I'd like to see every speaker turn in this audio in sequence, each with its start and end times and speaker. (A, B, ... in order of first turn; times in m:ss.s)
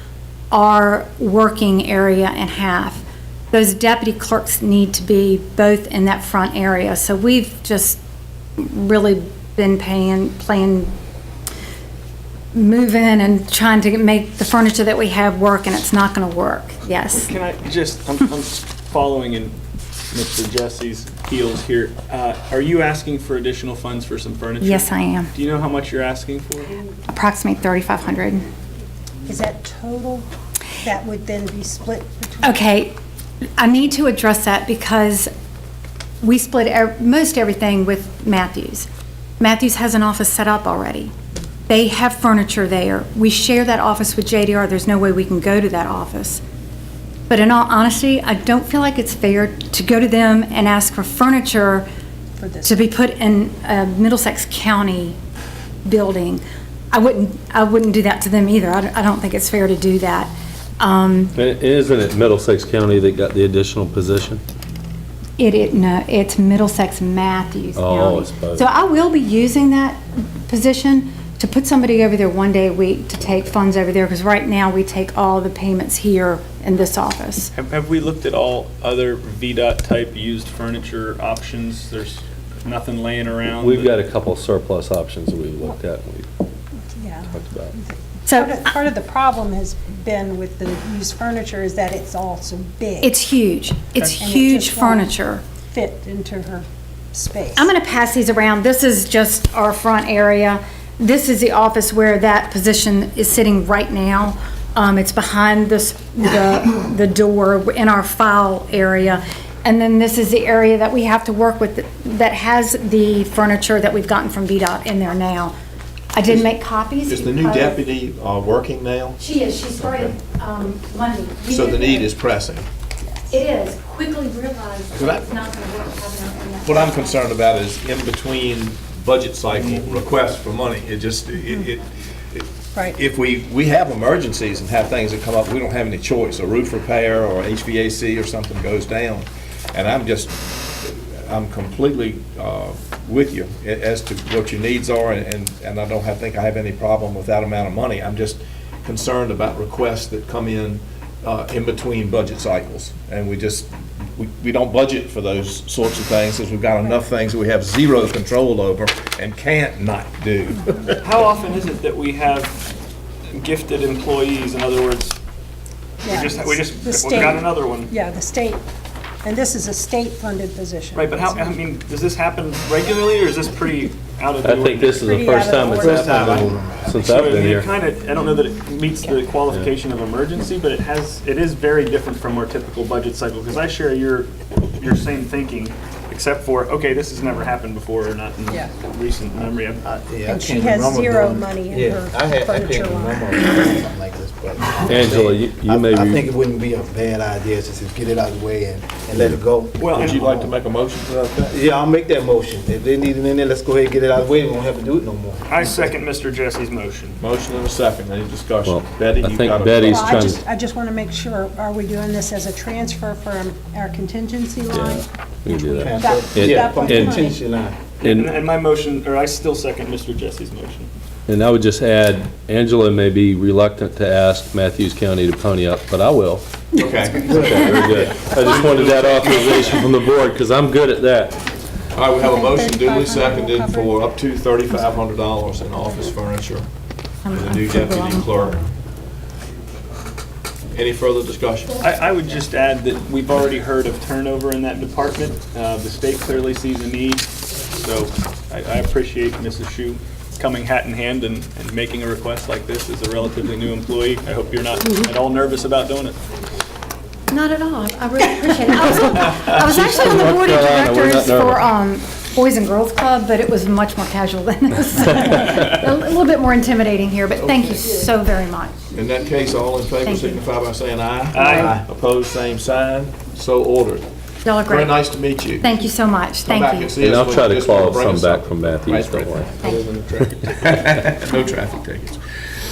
0:00.5-0:08.0 A
0:08.6-0:10.9 A
0:12.5-0:17.3 A
0:17.2-0:19.6 B
0:20.1-0:26.8 B
0:24.6-0:25.3 A
0:27.1-0:28.4 A
0:29.2-0:30.2 C
0:30.8-0:32.6 C
0:32.4-0:32.9 A
0:33.6-0:35.3 A
0:36.2-0:38.9 A
0:39.4-0:41.1 A
0:41.7-0:46.4 A
0:47.3-0:51.9 A
0:52.4-0:52.9 C
0:52.6-0:55.2 A
0:55.8-1:01.3 A
1:01.3-1:04.4 D
1:05.4-1:17.5 A
1:07.8-1:08.6 D
1:17.5-1:23.9 B
1:23.6-1:26.3 D
1:27.0-1:33.2 C
1:27.3-1:27.7 D
1:28.2-1:28.6 A
1:33.0-1:35.4 A
1:34.2-1:35.1 C
1:35.7-1:37.7 C
1:37.6-1:55.5 A
1:56.1-1:57.8 A
1:57.1-1:59.2 E
1:59.2-2:02.1 A
1:59.8-2:00.1 E
2:01.5-2:02.7 E
2:03.3-2:07.3 A
2:04.9-2:05.2 E
2:06.6-2:41.0 E
2:41.0-2:42.6 B
2:43.3-2:45.2 B
2:46.0-2:48.6 C
2:46.0-2:47.9 B
2:49.2-2:51.4 C
2:50.9-2:55.5 B
2:54.4-2:57.7 D
2:55.0-2:56.2 C
2:55.8-2:57.5 F
2:57.0-3:09.8 B
3:09.8-3:20.5 F
3:10.2-3:13.3 C
3:14.9-3:16.3 D
3:19.8-3:20.2 B
3:19.8-3:21.6 E
3:21.5-3:25.9 F
3:25.5-3:27.2 B
3:27.2-3:30.2 E
3:28.6-3:30.4 D
3:29.9-3:37.4 C
3:34.7-3:37.3 D
3:35.7-3:37.8 F
3:38.0-3:40.9 B
3:38.0-3:38.3 D
3:41.3-3:46.4 D
3:46.7-3:47.6 E
3:47.3-3:48.2 F
3:47.3-3:51.4 D
3:48.4-3:49.9 E
3:51.9-3:56.7 E
3:52.2-3:53.9 C
3:57.2-3:58.6 A
3:57.3-3:58.6 E
4:00.7-4:01.8 E
4:01.8-4:16.2 B
4:17.3-4:28.7 A
4:19.6-4:21.6 D
4:28.9-4:34.0 E
4:30.0-4:30.4 A
4:31.3-4:31.8 B
4:31.5-4:31.8 F
4:34.4-4:35.0 A
4:34.6-4:35.7 E
4:35.6-4:37.0 A
4:36.4-4:42.2 E
4:37.0-4:39.5 D